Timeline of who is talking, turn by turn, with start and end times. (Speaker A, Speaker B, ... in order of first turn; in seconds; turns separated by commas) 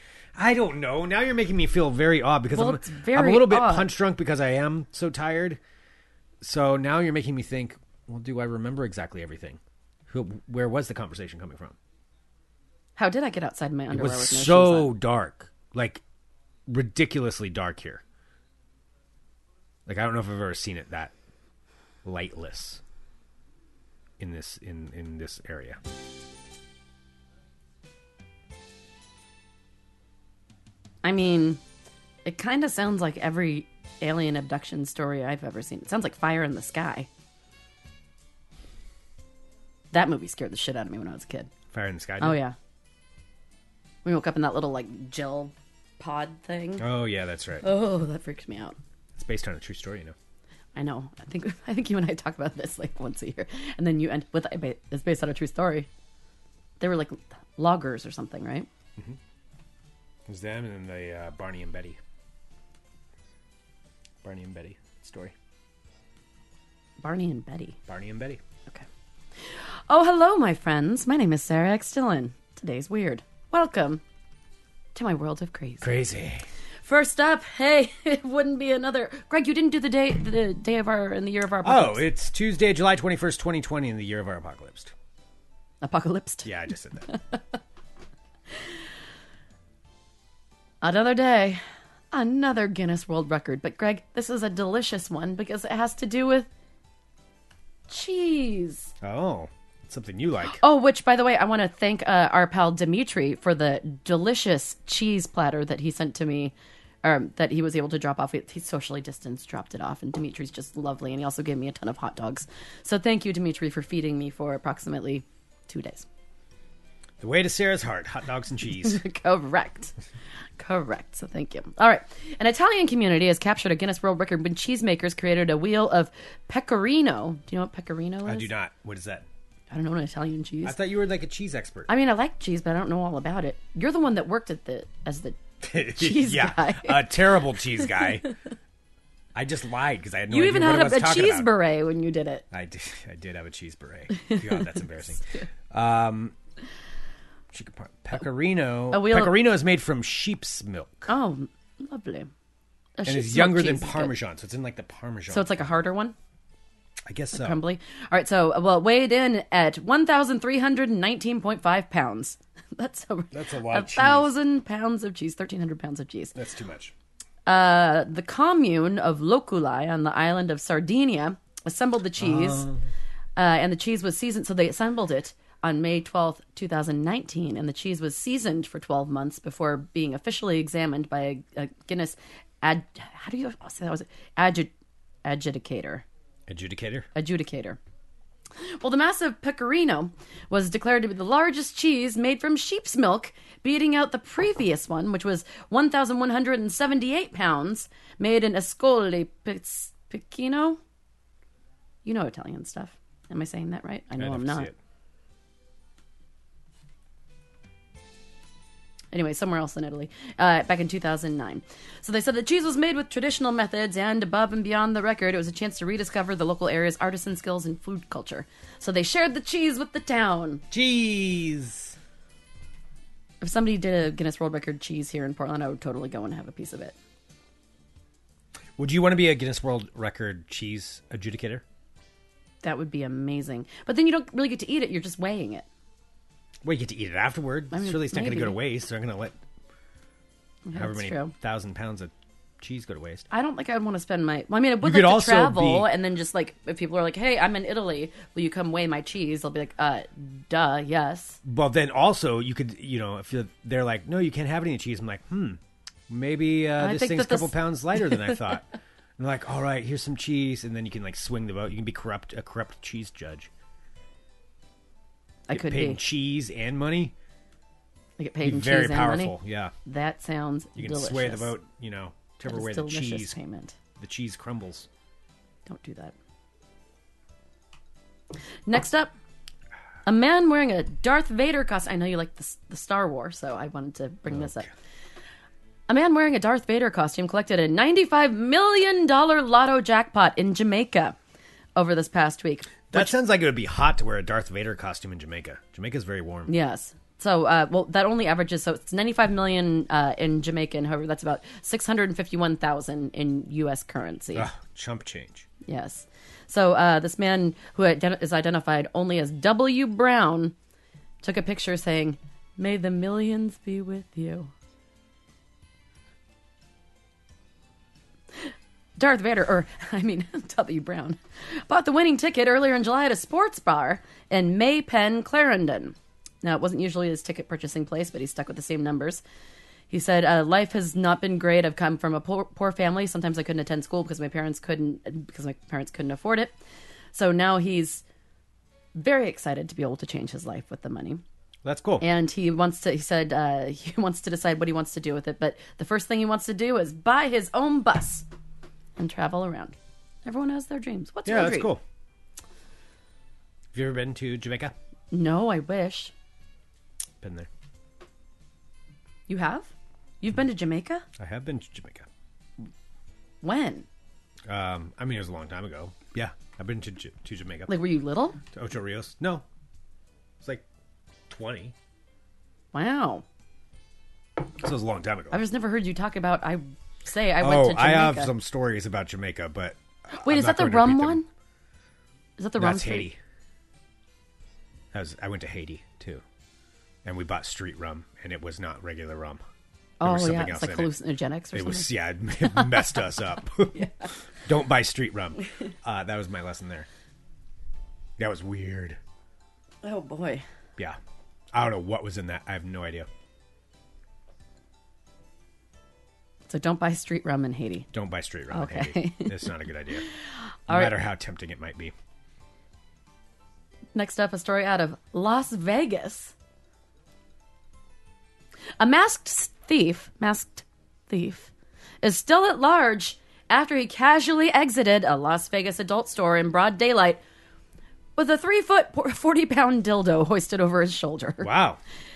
Speaker A: 0.4-5.6, Speaker B: 2.5-3.9, Speaker A: 6.4-11.8, Speaker B: 13.0-14.9, Speaker A: 13.9-16.0, Speaker A: 16.7-18.0, Speaker A: 19.9-21.1, Speaker A: 22.0-22.8, Speaker A: 24.2-25.8, Speaker B: 31.0-31.6, Speaker B: 32.2-37.1, Speaker B: 39.9-41.5, Speaker A: 41.7-42.4, Speaker B: 42.2-42.6, Speaker B: 44.0-46.8, Speaker A: 46.8-47.7, Speaker B: 47.6-48.8, Speaker A: 49.2-50.1, Speaker B: 50.8-55.9, Speaker B: 56.8-58.7, Speaker A: 60.3-62.0, Speaker A: 64.2-65.3, Speaker B: 67.0-67.8, Speaker A: 67.9-68.4, Speaker B: 69.4-74.0, Speaker B: 75.0-75.9, Speaker A: 75.8-76.5, Speaker B: 76.8-82.1, Speaker A: 81.6-84.9, Speaker B: 85.8-86.5, Speaker A: 86.5-87.1, Speaker B: 87.1-87.4, Speaker B: 90.8-96.5, Speaker B: 97.9-98.9, Speaker A: 99.0-100.6, Speaker B: 100.5-116.1, Speaker A: 117.2-119.0, Speaker B: 118.7-120.0, Speaker B: 120.6-128.5, Speaker A: 128.2-129.3, Speaker B: 129.7-130.8, Speaker A: 130.6-131.9, Speaker B: 131.9-138.3, Speaker A: 135.6-138.3, Speaker A: 139.3-141.5, Speaker B: 140.3-142.4, Speaker A: 142.5-146.3, Speaker B: 144.2-144.8, Speaker A: 147.5-151.1, Speaker B: 148.9-149.4, Speaker B: 151.1-152.3, Speaker B: 153.0-154.1, Speaker A: 153.1-155.8, Speaker B: 155.3-156.2, Speaker A: 157.1-157.6, Speaker B: 157.3-166.3, Speaker A: 163.3-164.3, Speaker A: 166.3-166.9, Speaker B: 167.5-172.7, Speaker A: 172.2-172.8, Speaker B: 173.4-184.7, Speaker B: 185.2-186.0, Speaker A: 186.5-187.1, Speaker B: 187.2-187.8, Speaker B: 188.6-200.8, Speaker B: 202.1-204.7, Speaker A: 204.2-204.8, Speaker B: 209.1-220.6, Speaker A: 220.7-222.0, Speaker B: 223.4-227.0, Speaker A: 228.8-231.6, Speaker B: 232.6-235.7, Speaker A: 236.6-239.4, Speaker B: 237.7-238.6, Speaker B: 240.7-241.3, Speaker A: 240.8-243.3, Speaker B: 243.3-251.4, Speaker A: 244.8-245.9, Speaker A: 251.4-258.7, Speaker B: 256.8-258.4, Speaker A: 259.2-263.5, Speaker B: 265.5-266.0, Speaker A: 265.5-267.1, Speaker B: 268.2-271.5, Speaker A: 268.4-269.7, Speaker A: 270.8-273.4, Speaker B: 272.4-273.8, Speaker A: 274.0-274.9, Speaker B: 275.7-276.1, Speaker B: 278.7-279.1, Speaker B: 280.1-284.7, Speaker B: 285.9-291.2, Speaker B: 291.8-293.1, Speaker A: 292.9-296.5, Speaker B: 296.5-304.5, Speaker A: 304.4-305.5, Speaker B: 305.6-310.6, Speaker B: 311.2-314.5, Speaker B: 318.4-329.2, Speaker B: 329.9-336.6, Speaker B: 337.1-338.0, Speaker B: 338.9-341.2, Speaker A: 341.6-342.1, Speaker B: 342.0-348.3, Speaker B: 349.0-351.7, Speaker A: 351.3-351.8, Speaker A: 353.7-354.7, Speaker B: 355.1-356.1, Speaker A: 357.2-357.5, Speaker B: 359.3-361.1, Speaker A: 361.2-362.1, Speaker B: 363.4-363.9, Speaker A: 364.5-367.8, Speaker B: 367.7-368.4, Speaker A: 368.5-369.4, Speaker A: 371.3-371.8, Speaker B: 372.7-373.2, Speaker A: 374.6-375.4, Speaker B: 375.3-378.3, Speaker A: 377.4-381.2, Speaker B: 380.1-381.3, Speaker B: 382.4-383.1, Speaker A: 382.6-383.2, Speaker A: 384.9-386.2, Speaker A: 387.1-389.4, Speaker B: 390.0-393.0, Speaker A: 390.0-390.9, Speaker A: 391.5-396.9, Speaker B: 393.7-394.1, Speaker A: 398.2-399.0, Speaker B: 399.8-400.4, Speaker A: 401.5-403.1, Speaker B: 406.5-407.9, Speaker A: 407.9-410.1, Speaker B: 408.5-409.4, Speaker A: 410.7-411.9, Speaker B: 410.7-410.9, Speaker B: 413.9-416.3, Speaker B: 418.8-427.2, Speaker B: 428.2-431.5, Speaker A: 431.4-431.8